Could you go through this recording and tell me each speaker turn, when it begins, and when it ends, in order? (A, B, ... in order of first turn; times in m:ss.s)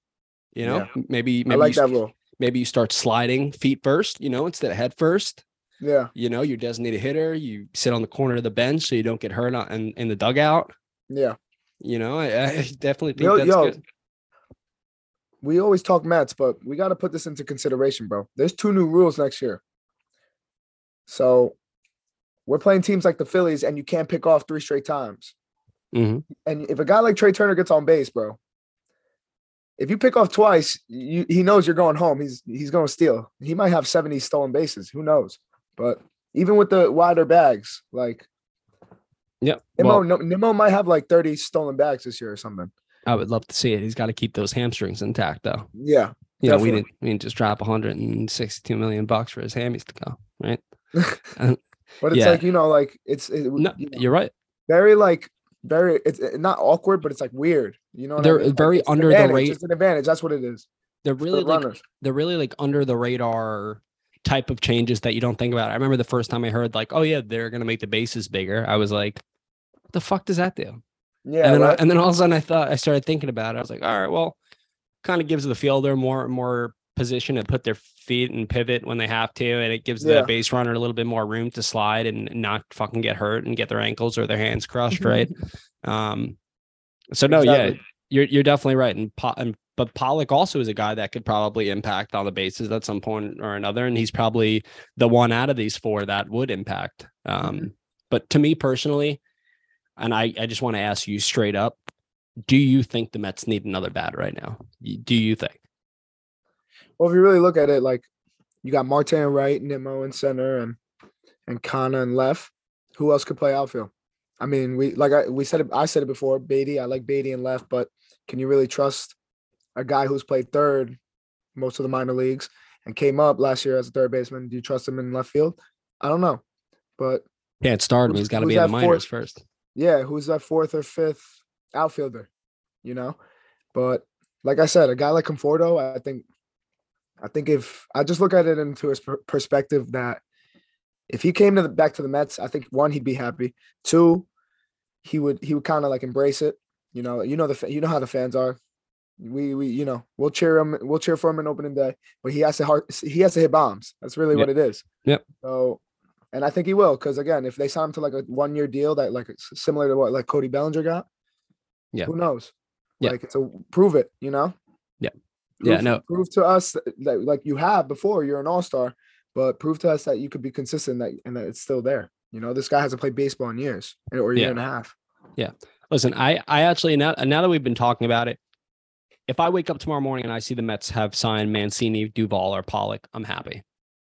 0:00.5-0:01.8 A
0:00.6-0:00.9 B
0:01.5-0:02.1 B
0:02.4-0:05.4 A
0:05.8-0:06.1 B
0:06.1-0:10.7 A
0:11.1-0:11.4 B
0:11.8-0:13.8 A
0:13.2-0:13.7 B
0:15.4-0:19.6 B
0:21.1-0:21.6 B
0:22.5-0:25.3 B
0:25.9-0:26.2 A
0:26.4-0:28.4 B
0:29.8-0:38.3 B
0:39.4-0:40.0 A
0:39.8-0:42.7 B
0:43.1-0:45.7 A
0:45.8-0:46.8 B
0:46.4-0:50.6 A
0:51.3-0:51.6 A
0:52.0-0:54.0 B
0:52.1-0:52.4 A
0:53.6-0:54.3 A
0:54.7-1:00.6 B
0:58.2-0:59.6 A
1:01.0-1:09.2 A
1:01.3-1:01.8 B
1:09.9-1:10.8 A
1:11.2-1:11.8 B
1:11.4-1:14.4 A
1:15.0-1:26.4 A
1:20.0-1:20.3 B
1:27.1-1:39.2 A
1:27.3-1:27.8 B
1:40.0-1:41.8 A
1:42.5-1:45.6 A
1:47.0-1:48.0 B
1:48.6-1:50.8 B
1:51.5-1:59.1 B
1:59.8-2:01.0 B
2:01.6-2:06.4 B
2:07.0-2:07.2 B
2:07.6-2:09.4 A
2:08.1-2:09.0 B
2:09.8-2:12.3 B
2:12.8-2:13.2 B
2:13.7-2:16.2 B
2:17.2-2:20.2 B
2:21.1-2:24.2 B
2:25.0-2:28.6 B
2:29.2-2:34.8 B
2:35.4-2:35.8 B
2:36.3-2:41.0 B
2:42.0-2:44.5 B
2:45.6-2:54.9 B
2:45.6-2:46.0 A
2:55.4-2:58.4 A
2:59.3-3:03.6 A